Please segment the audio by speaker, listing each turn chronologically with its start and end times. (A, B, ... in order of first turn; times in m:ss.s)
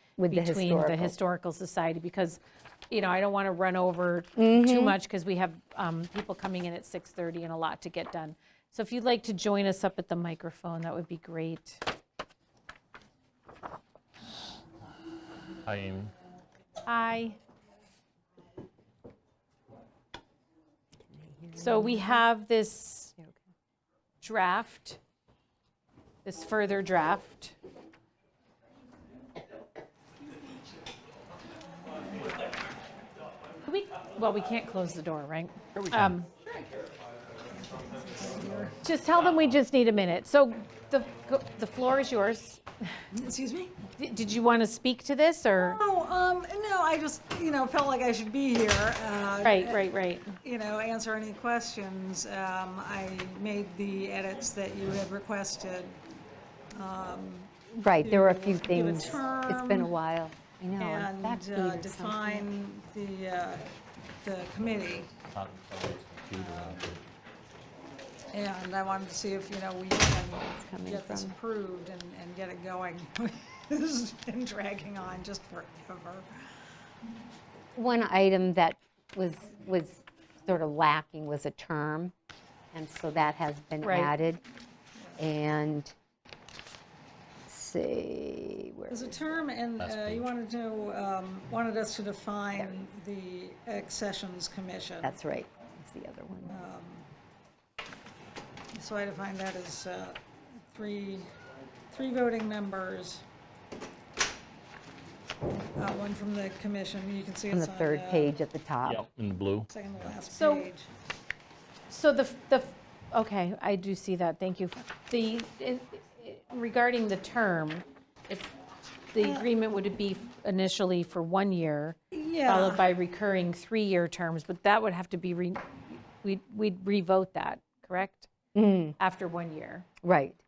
0:00.2-0:01.1 A
0:00.3-0:11.8 B
0:04.4-0:05.0 A
0:15.6-0:16.1 C
0:16.8-0:17.4 B
0:21.2-0:22.2 A
0:21.6-0:23.1 B
0:24.2-0:25.0 B
0:26.2-0:27.5 B
0:31.8-0:32.2 D
0:33.6-0:36.3 B
0:35.7-0:36.2 C
0:37.5-0:38.7 D
0:38.8-0:42.6 B
0:43.1-0:43.8 D
0:44.0-0:45.8 B
0:45.6-0:49.8 D
0:49.4-0:50.3 B
0:50.4-0:56.0 D
0:56.7-0:59.9 D
0:57.8-1:02.5 A
1:00.8-1:03.6 D
1:04.2-1:05.1 D
1:05.2-1:07.0 C
1:06.3-1:06.8 D
1:08.3-1:16.3 D
1:10.5-1:11.4 A
1:17.8-1:22.1 A
1:22.7-1:24.4 A
1:23.8-1:24.1 B
1:25.2-1:25.9 A
1:27.5-1:29.4 A
1:28.9-1:35.2 D
1:29.8-1:30.2 C
1:35.0-1:36.6 A
1:36.5-1:37.0 D
1:38.7-1:41.3 D
1:41.9-1:43.2 D
1:45.8-1:48.3 D
1:47.5-1:49.0 A
1:48.8-1:50.1 C
1:49.7-1:50.9 D
1:50.3-1:50.6 B
1:51.9-1:58.5 B
1:59.1-2:08.3 B
1:59.2-1:59.4 D
2:02.1-2:02.8 D
2:08.5-2:09.0 A
2:09.0-2:09.9 B
2:10.0-2:10.4 A